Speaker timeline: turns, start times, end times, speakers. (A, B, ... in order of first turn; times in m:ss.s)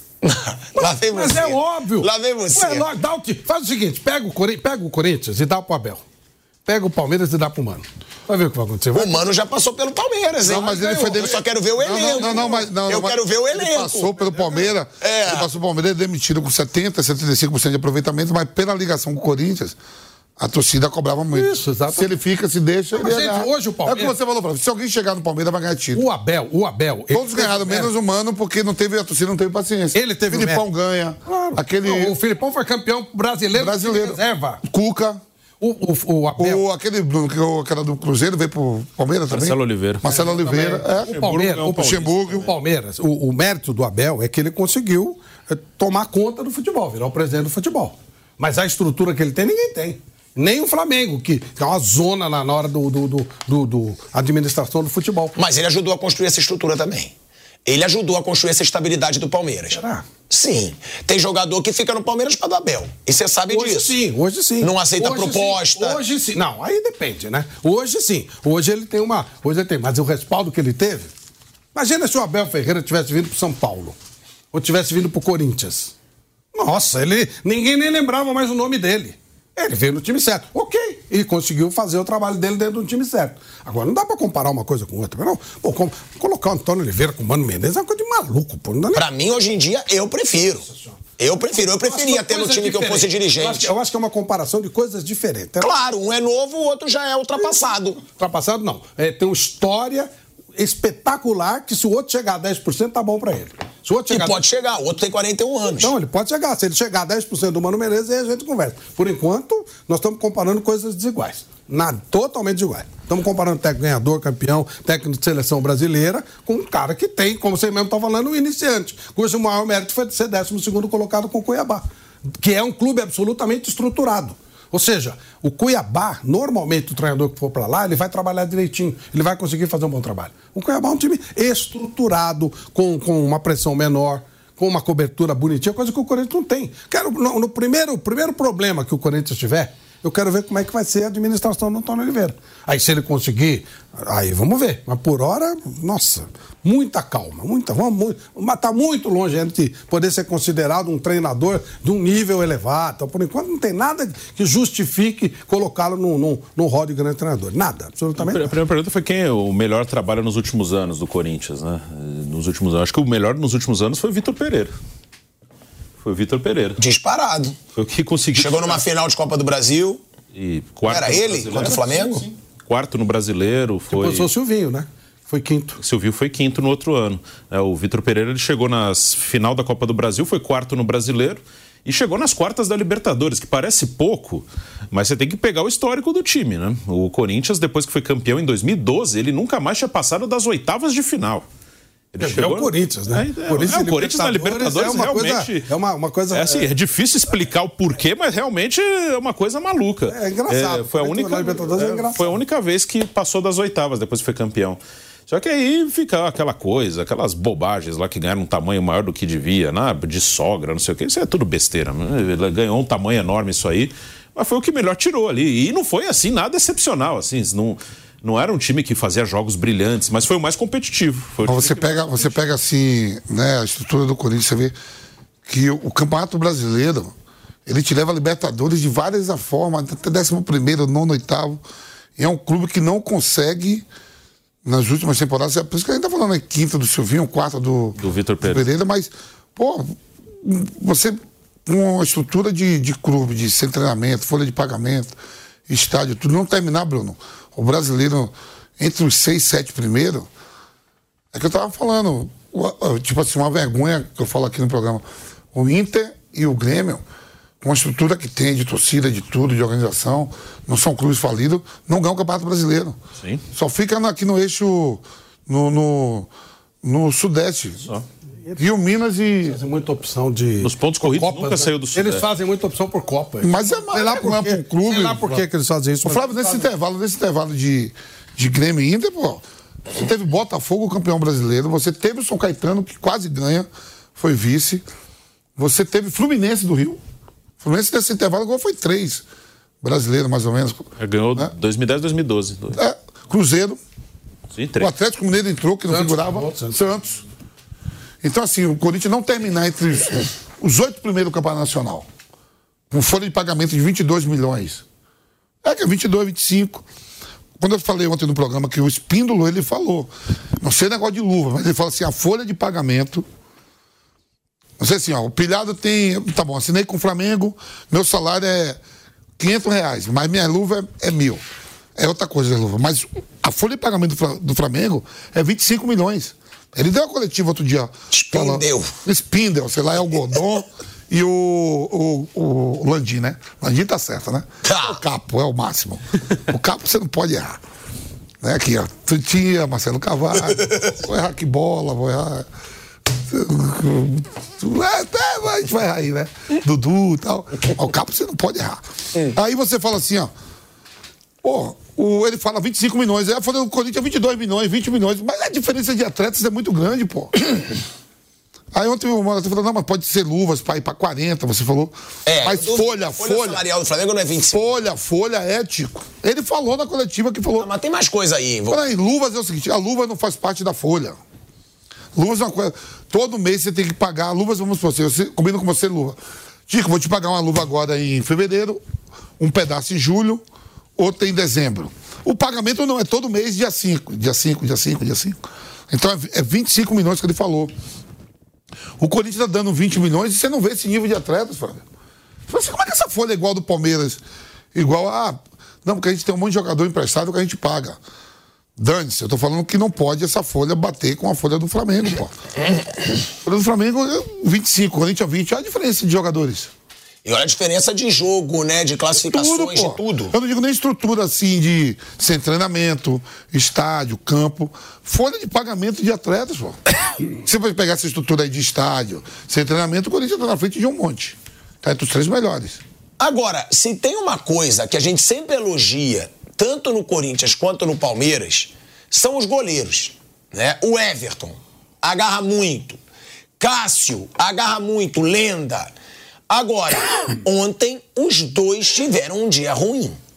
0:00.2-0:02.9 A
0:00.8-0:06.0 B
0:06.6-0:09.3 B
0:08.9-0:14.2 A
0:10.4-0:12.7 B
0:10.5-0:19.8 C
0:15.0-0:15.5 A
0:20.4-0:26.0 C
0:21.3-0:22.1 B
0:23.0-0:24.1 B
0:25.9-0:27.9 B
0:27.1-0:32.2 C
0:29.9-0:30.6 B
0:31.3-0:34.6 B
0:33.5-0:35.2 C
0:35.6-0:36.6 B
0:36.4-0:42.5 C
0:39.3-0:40.0 D
0:40.0-0:55.4 B
0:41.0-0:42.5 D
0:55.4-0:57.1 A
0:57.6-1:04.0 A
0:59.7-1:00.0 B
1:03.5-1:11.1 B
1:04.6-1:06.0 A
1:11.7-1:14.0 B
1:14.5-1:15.9 B
1:16.5-1:29.1 B
1:28.9-1:30.7 A
1:30.7-1:31.0 B
1:31.2-1:33.7 A
1:31.6-1:35.7 B
1:35.6-1:38.0 A
1:38.1-1:44.4 B
1:44.1-1:45.9 A
1:45.8-2:01.8 B
2:02.4-2:38.6 B
2:38.2-2:44.7 D
2:46.0-2:46.8 D
2:46.8-2:47.6 A
2:47.8-2:48.8 D
2:48.3-2:50.0 A
2:50.3-2:54.3 D
2:50.9-2:52.3 A
2:53.9-2:55.8 B
2:55.8-3:11.4 D
3:12.1-3:15.7 D
3:12.2-3:16.7 B
3:16.3-3:42.4 D
3:20.1-3:22.3 B
3:41.4-3:44.8 C
3:45.4-3:47.1 C
3:47.7-3:51.6 C
3:52.2-3:53.9 C
3:54.6-4:05.1 C
3:58.0-3:58.7 D
4:05.7-4:10.3 C
4:11.3-4:17.0 C
4:17.6-4:23.0 C
4:23.5-4:26.3 C
4:26.8-4:27.9 C
4:28.6-4:29.6 C
4:29.4-4:36.7 B
4:30.6-4:32.3 D
4:33.4-4:35.4 C
4:36.0-4:44.8 C
4:45.6-4:47.0 C
4:47.6-4:49.2 C
4:49.8-4:51.5 C
4:51.0-4:52.8 D
4:52.8-4:53.8 C
4:54.5-4:54.9 D
4:54.8-4:57.2 C
4:55.9-4:56.8 B
4:58.2-5:02.1 C
5:02.9-5:04.8 C
5:05.6-5:06.8 C
5:07.6-5:13.3 C
5:14.8-5:18.8 C
5:19.4-5:21.4 C
5:22.0-5:37.6 C
5:28.1-5:29.0 A
5:34.6-5:35.0 A
5:38.4-5:42.5 C
5:43.3-5:50.3 C
5:51.4-5:57.5 C
5:58.7-6:03.6 C
6:02.3-6:04.6 A
6:04.5-6:07.7 C
6:07.6-6:08.8 A
6:08.7-6:11.2 C
6:12.1-6:18.8 C
6:19.4-6:20.4 C
6:21.0-6:27.7 C
6:29.0-6:31.8 C
6:32.5-6:34.2 C
6:34.7-6:38.0 C
6:38.8-6:42.4 C
6:43.4-6:46.7 C
6:47.2-6:50.4 A
6:49.3-6:56.8 C
6:57.4-7:02.8 C
7:03.2-7:13.0 A
7:13.6-7:15.9 A
7:16.5-7:20.2 A